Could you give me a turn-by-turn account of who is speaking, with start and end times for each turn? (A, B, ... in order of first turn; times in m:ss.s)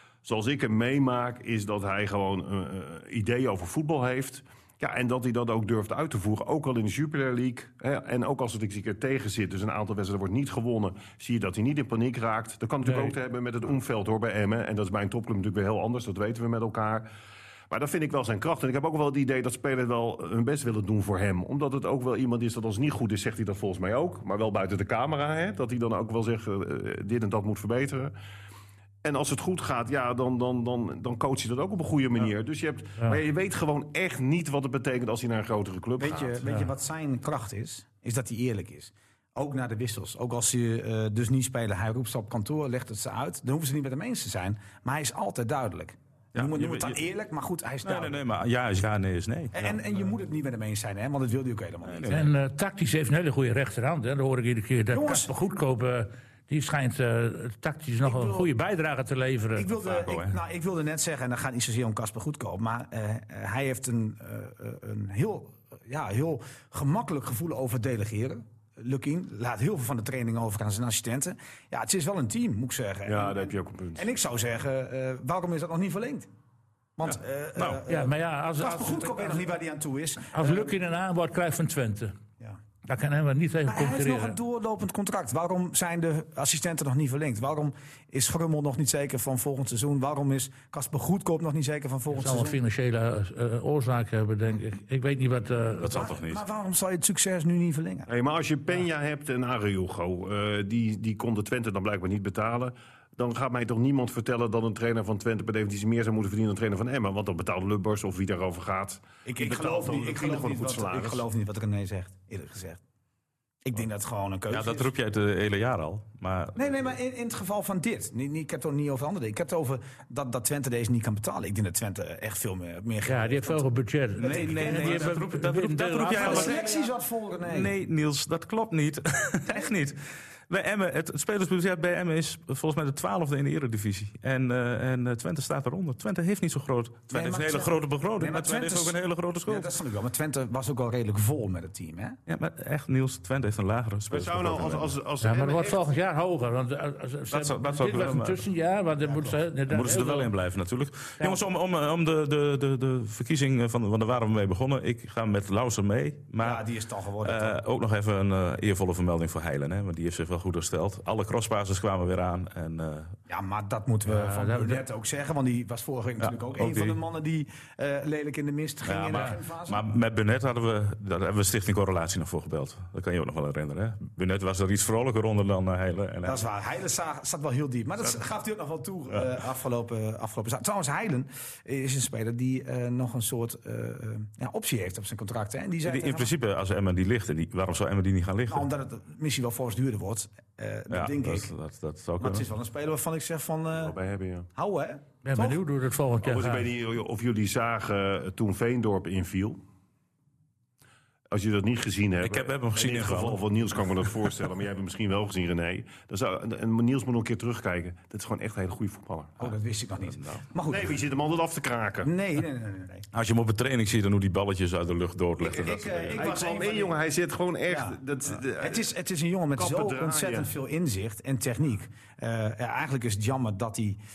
0:00.2-0:17.1 A
0:12.9-0:13.1 B
0:17.7-0:28.1 A
0:29.0-0:36.4 A
0:36.0-0:48.2 C
0:36.5-0:36.7 B
0:46.4-0:47.0 D
0:47.8-0:49.8 D
0:49.5-0:52.3 C
0:51.8-0:52.3 D
0:52.1-0:59.7 B
0:54.9-0:55.3 C
0:58.0-0:58.5 C
0:59.6-1:16.3 C
0:59.8-1:00.4 D
1:13.1-1:14.1 A
1:17.0-1:20.8 C
1:17.9-1:19.4 B
1:20.3-1:22.2 B
1:22.9-1:24.4 B
1:23.7-1:32.6 C
1:32.1-1:36.0 B
1:35.8-1:36.4 D
1:35.9-1:38.1 C
1:38.1-1:51.2 A
1:49.2-1:52.8 C
1:53.6-1:54.9 C
1:54.5-1:56.7 D
1:56.6-2:03.7 C
2:03.1-2:06.6 B
2:04.2-2:05.2 C
2:04.2-2:06.8 D
2:06.1-2:07.7 C
2:07.4-2:19.7 D
2:17.1-2:22.2 C
2:22.3-2:24.9 D
2:24.1-2:25.9 A
2:25.2-2:30.3 B
2:27.3-2:28.4 D
2:29.1-2:29.4 C
2:29.7-2:36.6 D
2:36.4-2:37.6 C
2:37.2-2:43.2 D
2:43.3-2:49.8 C
2:44.1-2:44.8 B
2:46.2-2:47.0 D
2:48.8-2:56.4 D
2:56.2-3:06.3 C
3:05.9-3:08.7 D
3:08.5-3:11.5 C
3:10.9-3:12.4 D
3:12.2-3:14.0 C
3:13.7-3:14.5 A
3:14.6-3:15.6 C
3:15.2-3:16.7 B
3:16.2-3:19.6 A
3:21.3-3:29.4 A
3:22.2-3:23.4 D
3:29.4-3:31.0 C
3:30.7-3:32.1 A
3:32.0-3:33.1 C
3:33.1-3:36.2 D
3:35.4-3:38.9 A
3:35.5-3:37.0 C
3:37.7-3:44.0 C
3:39.6-3:40.5 A